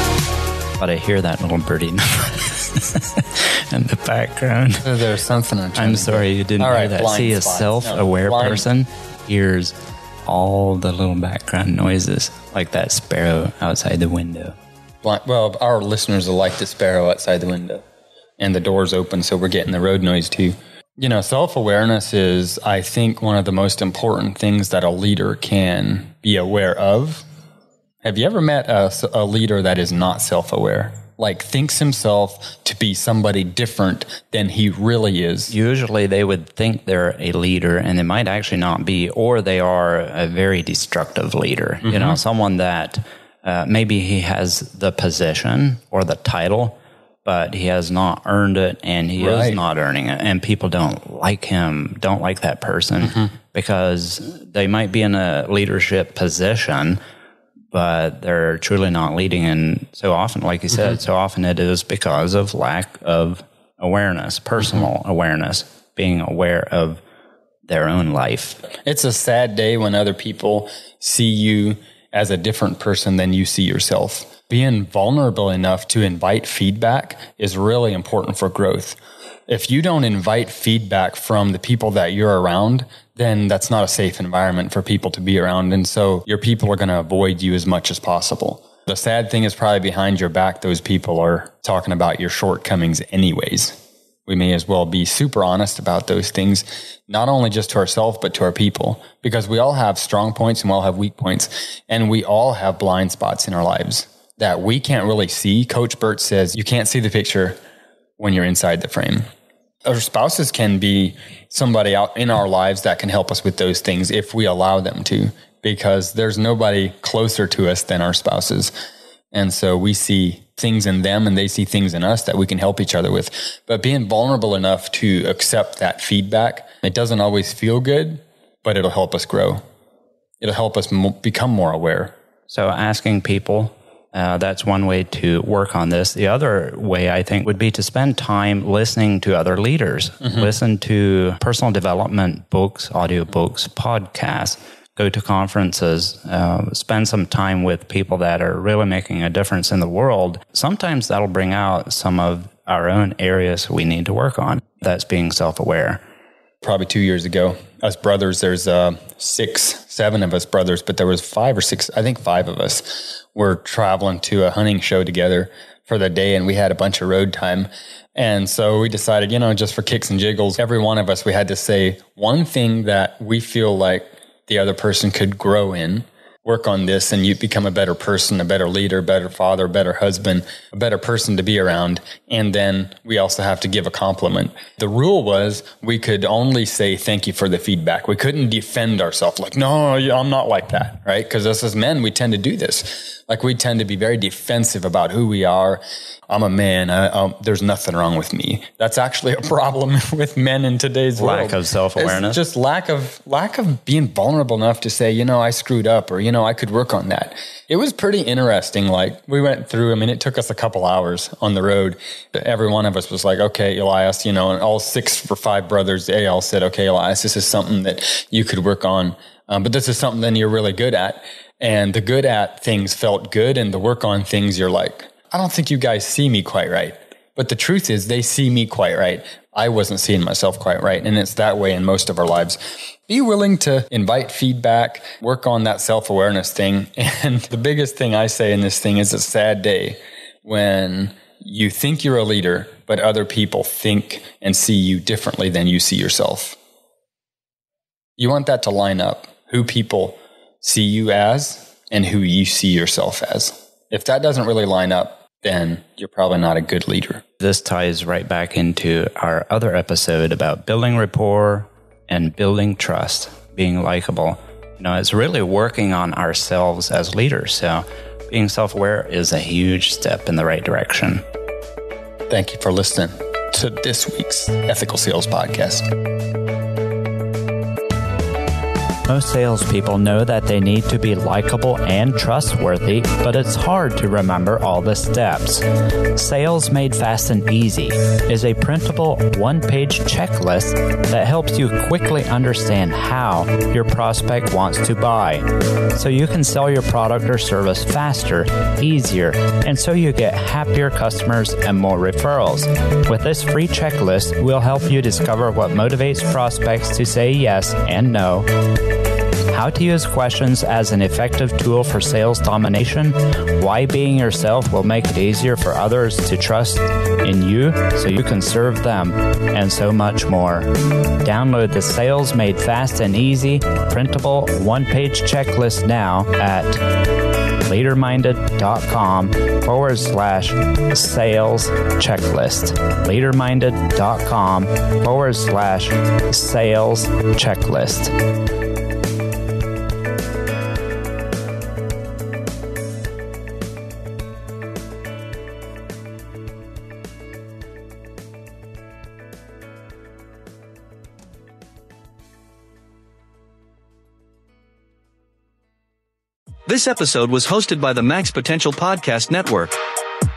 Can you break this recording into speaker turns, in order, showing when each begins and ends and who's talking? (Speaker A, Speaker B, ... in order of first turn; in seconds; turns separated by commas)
Speaker A: 0.8-4.8, Speaker B: 4.8-8.7, Speaker A: 5.7-9.7, Speaker A: 10.2-14.5, Speaker B: 15.0-17.8, Speaker B: 18.4-27.2, Speaker B: 28.0-35.5, Speaker A: 35.5-57.0, Speaker B: 41.8-42.2, Speaker B: 49.2-49.6, Speaker A: 57.7-67.0, Speaker A: 67.7-68.6, Speaker B: 68.8-79.0, Speaker B: 79.5-93.8, Speaker B: 94.3-107.6, Speaker B: 108.2-109.2, Speaker B: 109.8-118.7, Speaker B: 119.3-129.6, Speaker B: 130.4-132.1, Speaker A: 132.5-156.0, Speaker B: 156.6-246.6, Speaker A: 201.2-202.4, Speaker B: 248.2-257.2, Speaker A: 257.4-271.2, Speaker B: 272.3-275.8, Speaker A: 279.1-285.6, Speaker A: 286.1-308.5, Speaker A: 309.5-320.7, Speaker A: 321.2-326.8, Speaker A: 327.6-338.1, Speaker C: 356.7-359.8